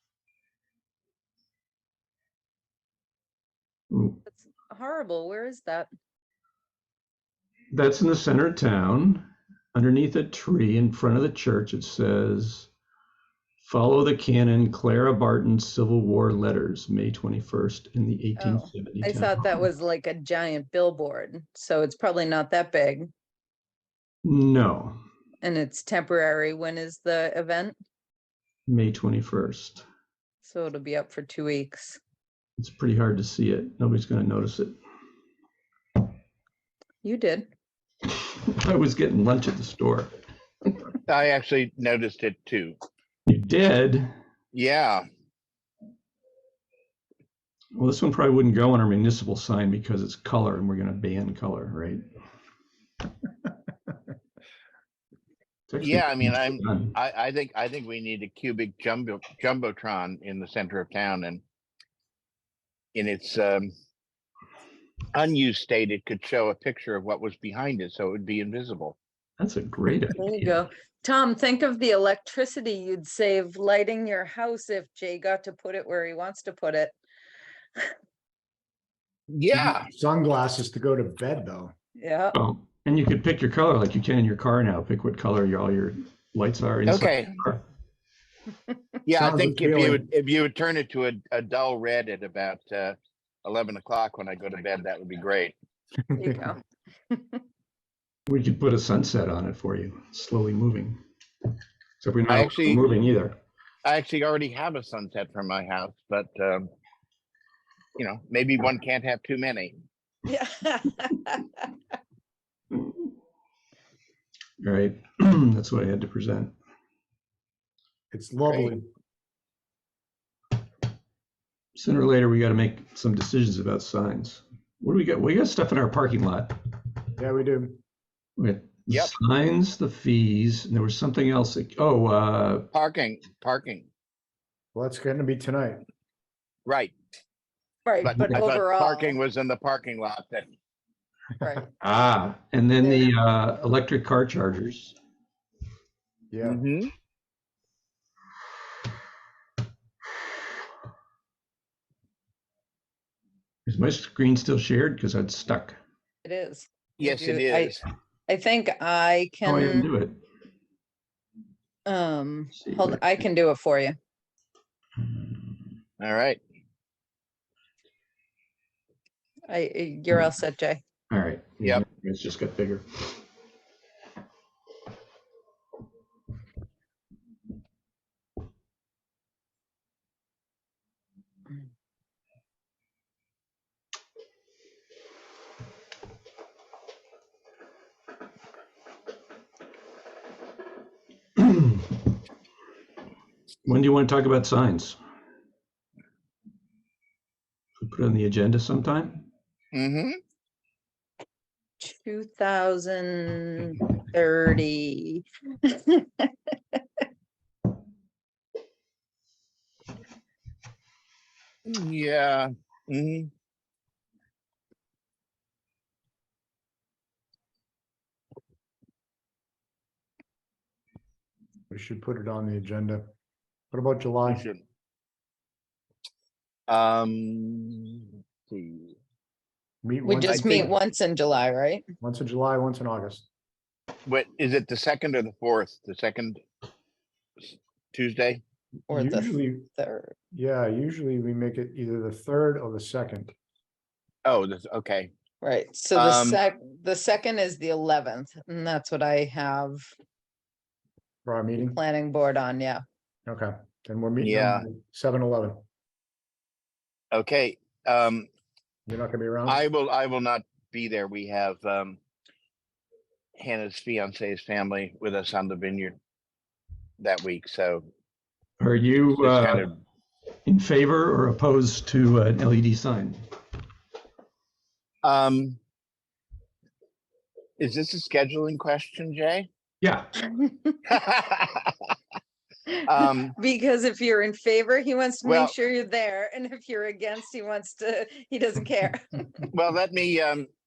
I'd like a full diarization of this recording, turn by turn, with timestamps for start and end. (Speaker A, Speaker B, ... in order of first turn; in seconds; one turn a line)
Speaker A: 3.9-4.2
Speaker B: 4.2-5.9
Speaker A: 7.7-12.7
Speaker A: 13.6-19.4
Speaker B: 18.4-23.1
Speaker A: 24.2-25.0
Speaker B: 25.4-27.8
Speaker A: 28.7-29.8
Speaker B: 30.4-32.0
Speaker A: 32.6-34.8
Speaker B: 37.0-37.5
Speaker A: 38.1-40.1
Speaker C: 41.1-42.8
Speaker A: 43.3-44.1
Speaker C: 44.5-45.0
Speaker A: 47.7-52.0
Speaker A: 55.7-56.9
Speaker C: 55.8-61.4
Speaker C: 62.9-63.7
Speaker C: 65.1-69.0
Speaker A: 69.4-70.6
Speaker B: 70.1-76.9
Speaker C: 79.3-79.9
Speaker D: 79.5-81.7
Speaker B: 81.9-82.4
Speaker A: 82.3-87.6
Speaker C: 86.8-87.3
Speaker C: 89.0-95.5
Speaker D: 89.1-90.0
Speaker D: 96.1-96.5
Speaker B: 96.2-96.6
Speaker B: 97.1-97.4
Speaker A: 98.3-101.0
Speaker A: 102.0-103.3
Speaker C: 102.3-102.8
Speaker C: 103.8-106.7
Speaker C: 108.0-109.8
Speaker B: 110.2-111.7
Speaker A: 114.6-116.5
Speaker D: 118.1-118.9
Speaker C: 118.5-118.7
Speaker A: 121.7-126.5
Speaker D: 127.2-127.8
Speaker A: 128.4-132.7
Speaker C: 132.7-133.9
Speaker D: 134.7-135.8
Speaker C: 136.7-136.9
Speaker B: 137.8-139.2
Speaker C: 138.0-140.5
Speaker B: 141.4-141.7
Speaker A: 141.8-145.0
Speaker B: 142.8-143.2
Speaker D: 146.3-146.6
Speaker C: 146.4-146.9
Speaker A: 153.7-155.8
Speaker B: 156.2-159.9
Speaker C: 157.0-157.8
Speaker A: 159.4-160.2
Speaker B: 161.8-163.9
Speaker A: 162.6-163.0
Speaker A: 165.0-165.4
Speaker C: 166.0-166.4
Speaker B: 169.5-170.8
Speaker A: 171.1-173.1
Speaker A: 191.4-191.8
Speaker A: 193.6-195.0
Speaker A: 197.8-199.3
Speaker C: 199.7-200.2
Speaker B: 201.8-206.3
Speaker C: 211.7-213.3
Speaker D: 221.7-223.1
Speaker D: 223.7-224.4
Speaker C: 224.3-224.6
Speaker C: 226.7-228.9
Speaker D: 229.8-230.7
Speaker B: 230.0-231.8
Speaker C: 230.3-230.7
Speaker D: 232.0-233.3
Speaker C: 234.1-236.4
Speaker C: 237.4-238.4
Speaker D: 238.9-239.7
Speaker B: 238.9-240.1
Speaker D: 240.3-243.3
Speaker C: 244.2-245.1
Speaker B: 245.4-249.8
Speaker C: 245.9-246.4
Speaker D: 251.2-251.8
Speaker B: 251.6-252.8
Speaker D: 253.2-255.6
Speaker C: 254.2-254.7
Speaker C: 257.1-258.3
Speaker D: 258.9-259.6
Speaker C: 259.4-262.0
Speaker C: 263.4-265.9
Speaker C: 267.0-267.9
Speaker A: 268.6-269.6
Speaker C: 269.1-269.7
Speaker A: 270.4-273.2
Speaker C: 275.0-275.6
Speaker C: 277.6-279.5
Speaker A: 279.8-280.1
Speaker B: 280.3-280.7
Speaker C: 280.9-281.7
Speaker C: 282.9-283.3
Speaker B: 283.4-289.4
Speaker C: 285.2-285.5
Speaker C: 289.5-290.5